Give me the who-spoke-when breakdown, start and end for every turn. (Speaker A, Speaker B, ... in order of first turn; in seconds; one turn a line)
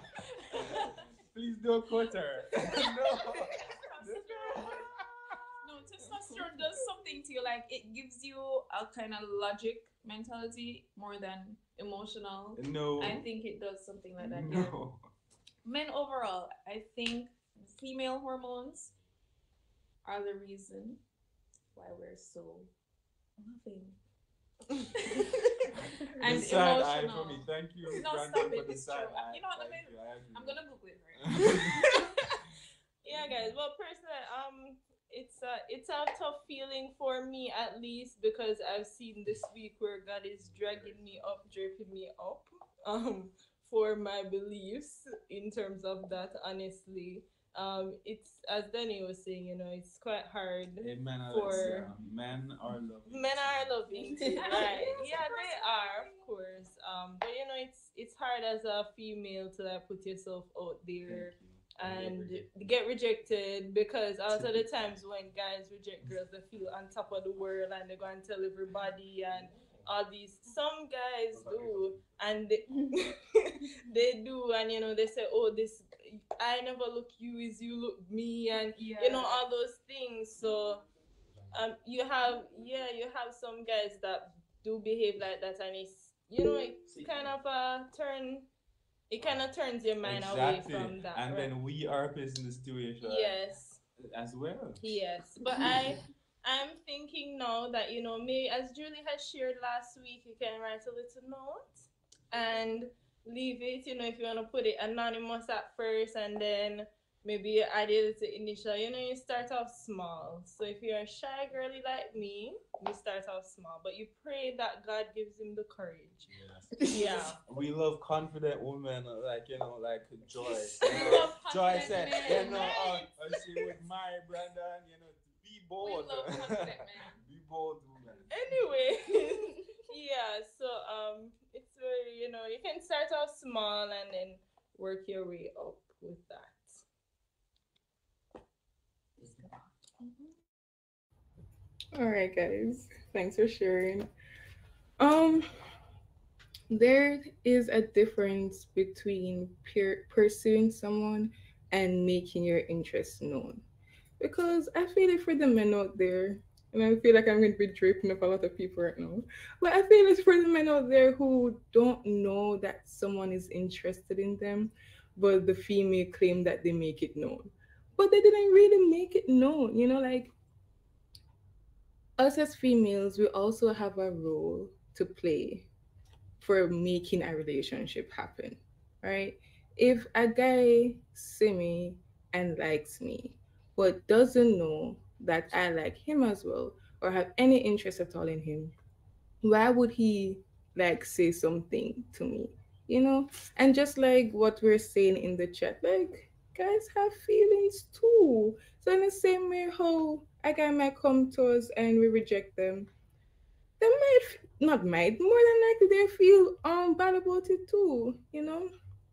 Speaker A: 0.6-6.4
Speaker B: 0.6-0.9
Speaker B: 2.6-5.0
Speaker B: 5.6-14.8
Speaker A: 12.5-13.2
Speaker A: 14.2-15.1
Speaker B: 15.6-18.9
Speaker B: 20.0-21.0
Speaker B: 21.7-22.7
Speaker B: 23.4-24.0
Speaker B: 26.2-31.6
Speaker A: 26.2-30.6
Speaker A: 31.1-32.0
Speaker C: 33.0-52.0
Speaker A: 50.8-54.8
Speaker C: 53.1-80.8
Speaker B: 53.9-56.2
Speaker A: 61.1-62.4
Speaker A: 64.3-64.7
Speaker B: 78.8-79.4
Speaker C: 81.5-88.5
Speaker A: 86.9-87.3
Speaker C: 89.1-91.5
Speaker A: 90.0-93.4
Speaker C: 93.0-93.8
Speaker A: 94.0-95.0
Speaker C: 94.8-116.3
Speaker A: 116.3-128.6
Speaker C: 116.9-117.4
Speaker B: 120.8-123.1
Speaker B: 125.8-127.2
Speaker C: 128.4-136.8
Speaker D: 141.9-144.1
Speaker D: 145.0-145.5
Speaker D: 146.7-153.6
Speaker D: 154.2-170.3
Speaker D: 172.2-175.6
Speaker D: 176.4-188.7
Speaker D: 189.4-202.9
Speaker D: 203.8-208.7